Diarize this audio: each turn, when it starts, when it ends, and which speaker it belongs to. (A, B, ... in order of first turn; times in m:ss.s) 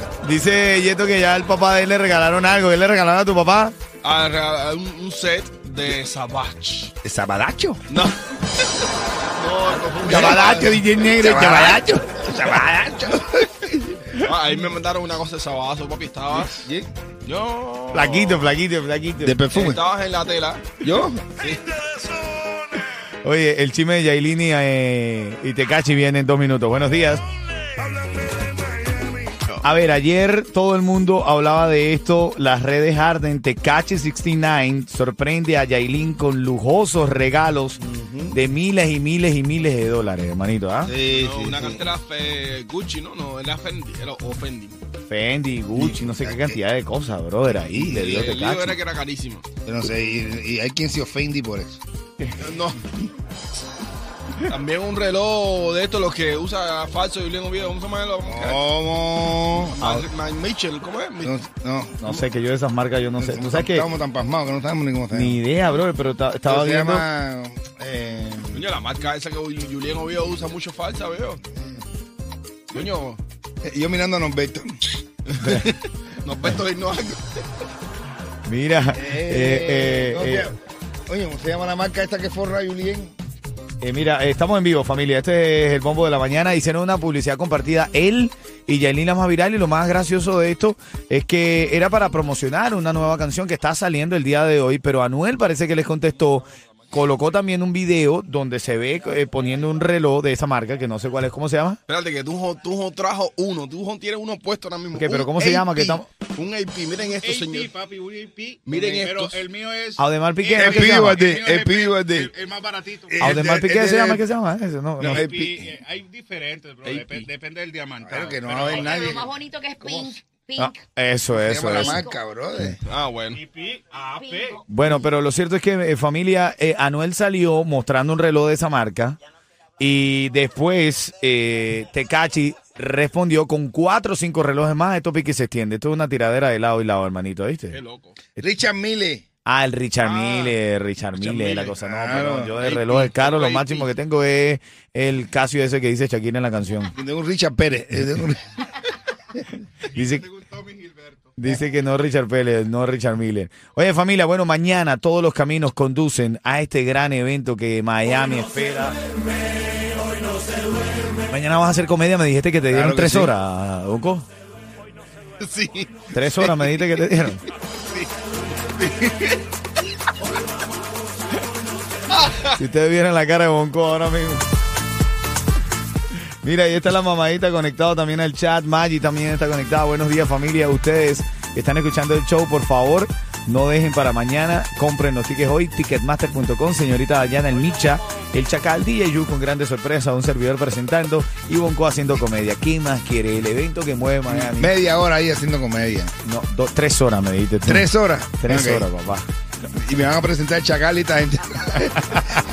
0:00.2-0:03.8 A
0:04.0-0:06.9 B
0:07.0-0:07.8 C
0:07.9-0:08.2 B
0:09.4-0:10.8 B
0:10.0-0:12.2 A
0:11.0-0:14.0 C
0:14.2-0:16.7 B
0:16.4-0:16.9 C
0:17.2-0:18.5 B
0:17.9-0:19.4 A
0:19.2-0:19.8 C
0:19.5-0:20.7 B
0:20.8-0:21.4 C
0:21.4-0:21.8 B
0:23.2-0:27.2 A
0:27.8-0:29.1 C
0:29.6-0:37.8 A
0:37.8-0:38.4 C
0:38.3-0:40.9 A
0:40.8-0:41.9 C
0:41.0-0:44.8 B
0:45.1-0:48.8 A
0:45.8-0:46.6 C
0:47.5-0:48.1 C
0:47.9-0:49.4 B
0:49.6-0:51.8 C
0:52.4-0:52.8 B
0:54.5-0:58.6 B
0:58.2-1:00.0 C
0:59.6-1:01.3 B
1:01.2-1:02.2 C
1:02.0-1:03.9 A
1:03.2-1:05.4 C
1:05.1-1:07.0 A
1:06.4-1:08.6 C
1:08.5-1:11.4 B
1:11.5-1:11.8 C
1:12.7-1:13.2 B
1:13.6-1:15.0 C
1:15.3-1:17.2 B
1:18.4-1:20.5 A
1:18.9-1:20.5 C
1:21.0-1:23.1 C
1:23.8-1:41.8 A
1:41.9-1:47.7 B
1:44.9-1:46.1 A
1:47.2-1:53.3 D
1:48.6-1:49.4 B
1:50.0-1:51.2 A
1:50.6-1:52.3 C
1:53.1-1:54.2 C
1:53.2-1:55.3 A
1:55.0-1:59.0 D
1:55.1-1:55.7 C
1:56.8-1:57.3 B
1:58.0-2:00.1 C
1:58.9-2:00.8 E
2:00.6-2:02.0 A
2:01.3-2:02.8 C
2:01.7-2:02.2 E
2:02.8-2:03.4 B
2:03.4-2:04.6 D
2:04.1-2:04.6 E
2:04.7-2:09.2 A
2:09.8-2:17.8 A
2:17.7-2:18.2 B
2:18.3-2:19.2 C
2:19.4-2:26.9 A
2:20.0-2:20.5 B
2:21.1-2:21.8 B
2:21.8-2:22.6 C
2:22.6-2:23.9 B
2:26.9-2:28.4 C
2:29.8-2:30.3 A
2:31.4-2:39.0 A
2:41.3-2:44.2 A
2:42.6-2:43.3 C
2:45.4-2:46.8 B
2:46.1-2:47.4 A
2:48.8-2:49.4 B
2:52.1-2:52.5 B
2:52.5-2:54.4 A
2:56.4-3:14.7 A
3:14.3-3:16.1 C
3:16.2-3:19.3 A
3:17.6-3:18.9 C
3:19.7-3:22.2 C